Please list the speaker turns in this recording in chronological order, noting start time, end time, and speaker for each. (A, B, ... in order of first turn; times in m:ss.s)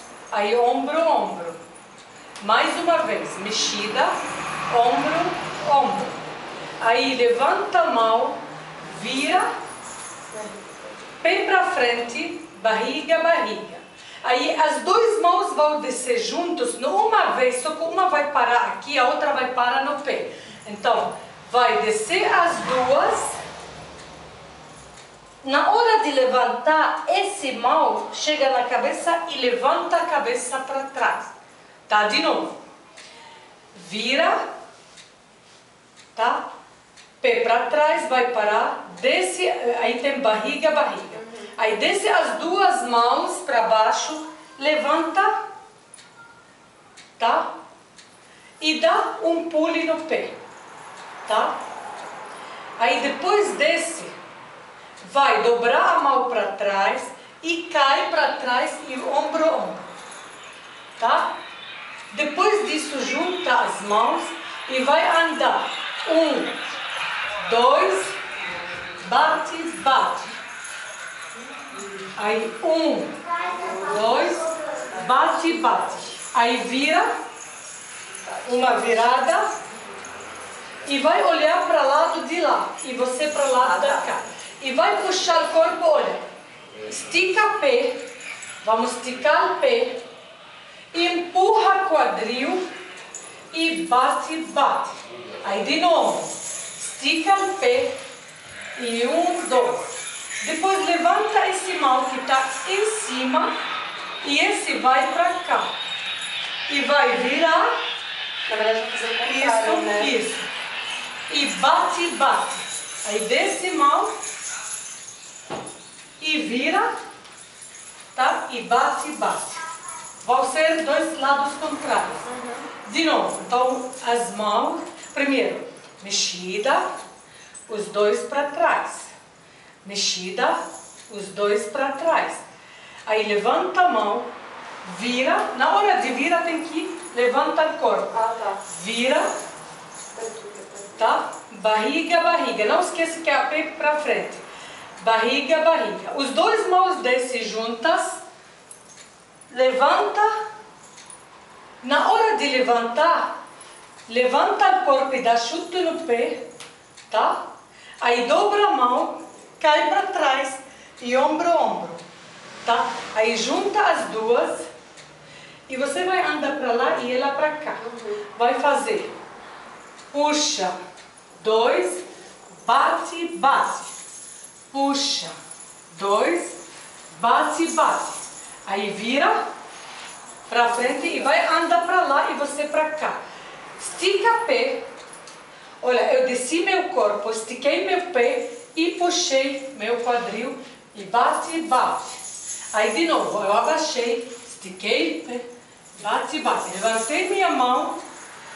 0:00.3-0:01.6 A
0:02.4-0:04.1 A
0:04.7-0:06.2 A
0:06.8-0:09.5 A
0:11.2-0:23.4 A
0:25.4-0:31.3 A
0:31.9-0:32.5 A
0:33.7-0:34.4 A
0:36.1-0:36.5 A
0:37.2-0:45.4 A
0:47.2-0:47.5 A
0:48.6-0:50.3 A
0:51.2-0:51.6 A
0:52.8-0:54.1 A
0:55.0-0:59.9 A
1:01.0-1:01.4 A
1:02.1-1:06.5 A
1:07.4-1:08.2 A
1:09.0-1:10.4 A
1:12.1-1:17.1 A
1:18.2-1:18.8 B
1:18.4-1:19.5 A
1:20.8-1:26.3 A
1:26.8-1:28.0 A
1:28.6-1:30.0 A
1:30.9-1:32.6 A
1:33.5-1:38.0 A
1:38.8-1:39.8 A
1:40.4-1:43.5 A
1:44.2-1:45.7 A
1:46.7-1:47.7 A
1:48.5-1:50.1 B
1:49.2-1:50.5 A
1:51.3-1:54.1 A
1:56.2-1:56.9 A
1:58.1-1:59.6 A
2:00.2-2:02.3 A
2:02.3-2:02.6 B
2:02.8-2:06.9 A
2:07.7-2:09.1 A
2:09.8-2:12.4 A
2:13.0-2:14.3 A
2:14.8-2:19.3 A
2:18.1-2:18.6 B
2:20.1-2:21.0 B
2:21.0-2:24.4 A
2:25.0-2:28.2 A
2:29.5-2:30.3 A
2:31.8-2:33.3 A
2:34.1-2:36.4 A
2:37.1-2:37.5 A
2:38.0-2:42.0 A
2:42.6-2:44.7 A
2:45.7-2:49.1 A
2:47.8-2:48.2 B
2:50.1-2:50.7 A
2:51.4-2:52.0 A
2:52.6-2:53.9 A
2:54.7-2:55.3 A
2:55.9-2:56.6 A
2:57.1-2:59.4 A
3:00.5-3:03.2 A
3:03.8-3:04.9 A
3:05.8-3:12.2 A
3:12.7-3:18.0 A